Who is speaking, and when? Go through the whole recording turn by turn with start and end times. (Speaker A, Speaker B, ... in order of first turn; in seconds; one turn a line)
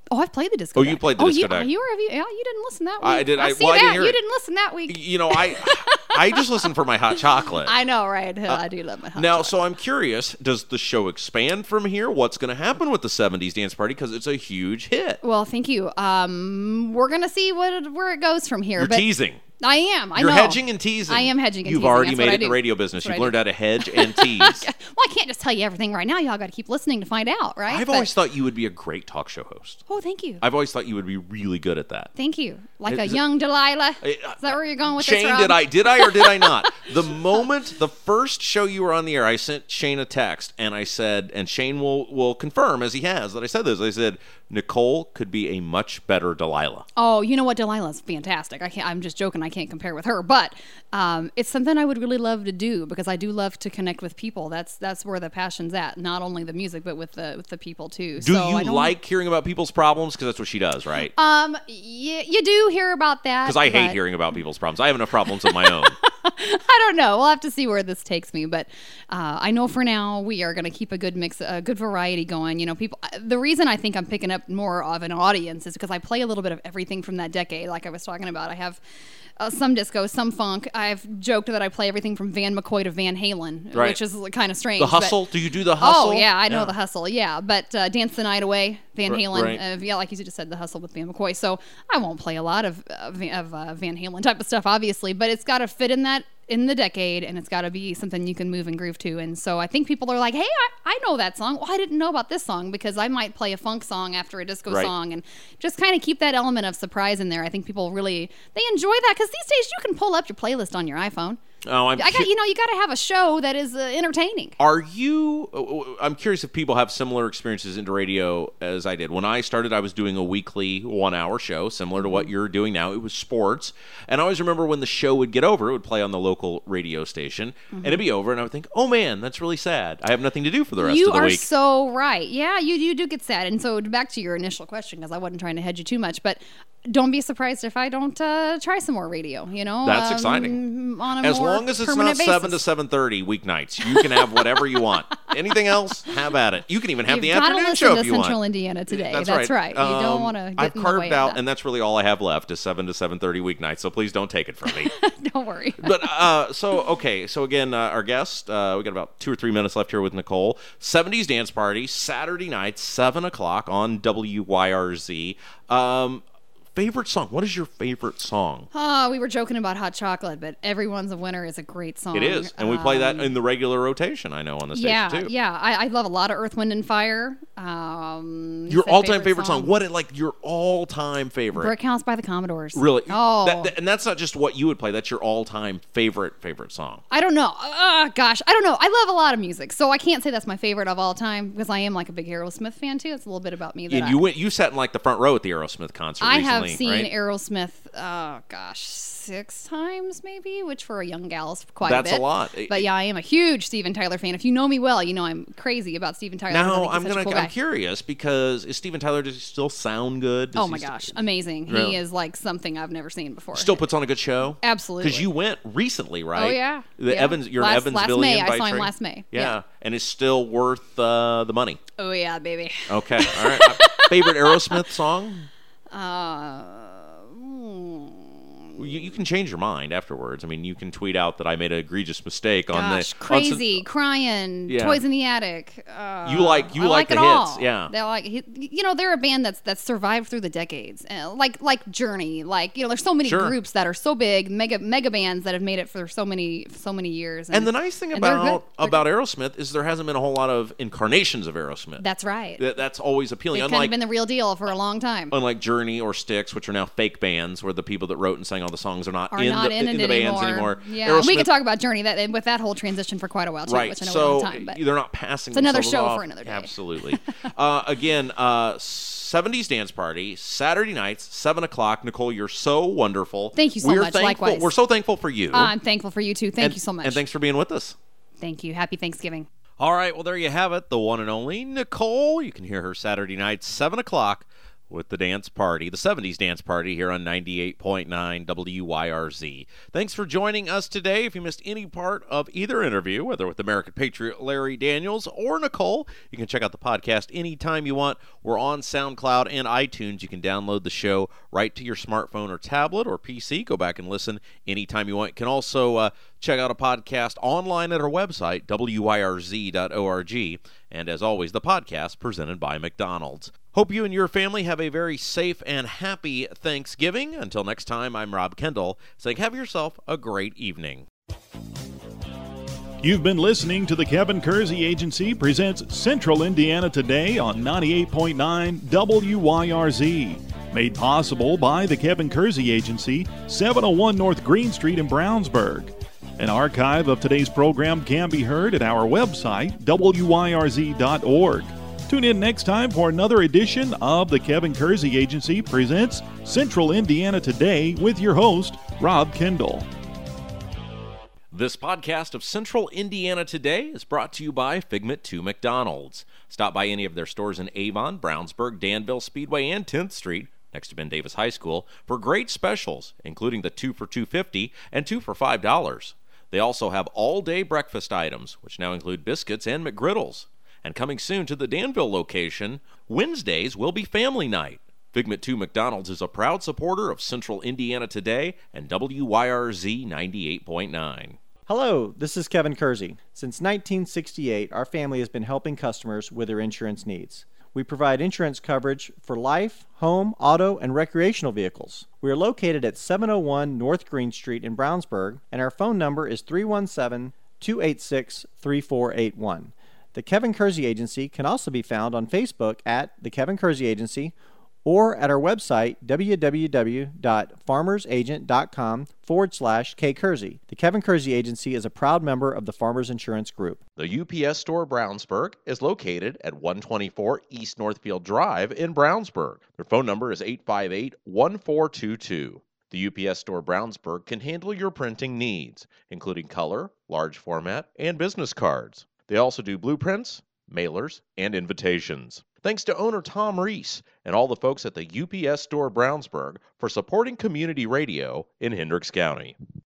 Speaker A: 0.1-6.7
Speaker B: 0.8-1.7
Speaker B: 3.0-4.2
Speaker B: 4.9-7.7
Speaker A: 7.6-9.6
Speaker B: 9.2-15.2
Speaker A: 15.2-19.1
Speaker B: 18.8-19.4
Speaker A: 19.6-28.1
Speaker B: 20.2-24.7
Speaker B: 27.7-29.8
Speaker A: 29.9-30.4
Speaker B: 30.4-32.1
Speaker A: 32.2-36.7
Speaker B: 32.9-33.2
Speaker B: 34.0-46.9
Speaker A: 47.0-58.9
Speaker B: 58.2-61.1
Speaker A: 61.2-64.0
Speaker B: 63.5-66.0
Speaker A: 65.4-78.8
Speaker A: 79.4-85.2
Speaker B: 83.7-84.0
Speaker B: 84.8-86.7
Speaker A: 85.8-111.4
Speaker B: 89.1-89.6
Speaker B: 111.7-112.3
Speaker A: 112.0-114.6
Speaker B: 114.6-131.5
Speaker A: 122.0-122.3
Speaker A: 127.7-128.0
Speaker A: 130.8-142.6
Speaker B: 139.8-140.6
Speaker B: 141.2-148.4
Speaker A: 143.8-144.8
Speaker A: 147.1-151.4
Speaker B: 148.9-154.9
Speaker A: 154.7-156.1
Speaker B: 155.8-166.2
Speaker B: 166.8-168.7
Speaker A: 168.7-173.3
Speaker B: 172.1-175.3
Speaker A: 174.8-179.7
Speaker B: 178.7-181.7
Speaker A: 181.6-183.7
Speaker B: 182.8-187.0
Speaker A: 187.1-194.2
Speaker B: 193.9-197.1
Speaker A: 196.2-207.5
Speaker B: 201.8-202.9
Speaker B: 206.5-211.1
Speaker A: 210.5-213.8
Speaker B: 211.7-212.0
Speaker B: 213.5-221.8
Speaker A: 214.6-215.3
Speaker A: 216.3-219.6
Speaker A: 222.0-224.8
Speaker B: 222.9-225.5
Speaker A: 225.9-228.8
Speaker B: 228.8-233.8
Speaker A: 232.7-249.0
Speaker B: 234.7-235.0
Speaker B: 236.2-237.9
Speaker B: 243.2-243.6
Speaker B: 247.5-252.0
Speaker A: 252.0-252.6
Speaker B: 252.6-253.9
Speaker A: 253.5-255.3
Speaker B: 255.3-261.5
Speaker A: 259.3-264.8
Speaker B: 263.7-275.7
Speaker A: 265.5-267.2
Speaker A: 273.6-274.8
Speaker A: 275.5-277.2
Speaker B: 276.6-278.0
Speaker A: 278.4-279.5
Speaker B: 279.8-321.1
Speaker C: 323.0-349.9
Speaker B: 351.5-381.4
Speaker D: 381.7-413.8
Speaker B: 414.0-439.6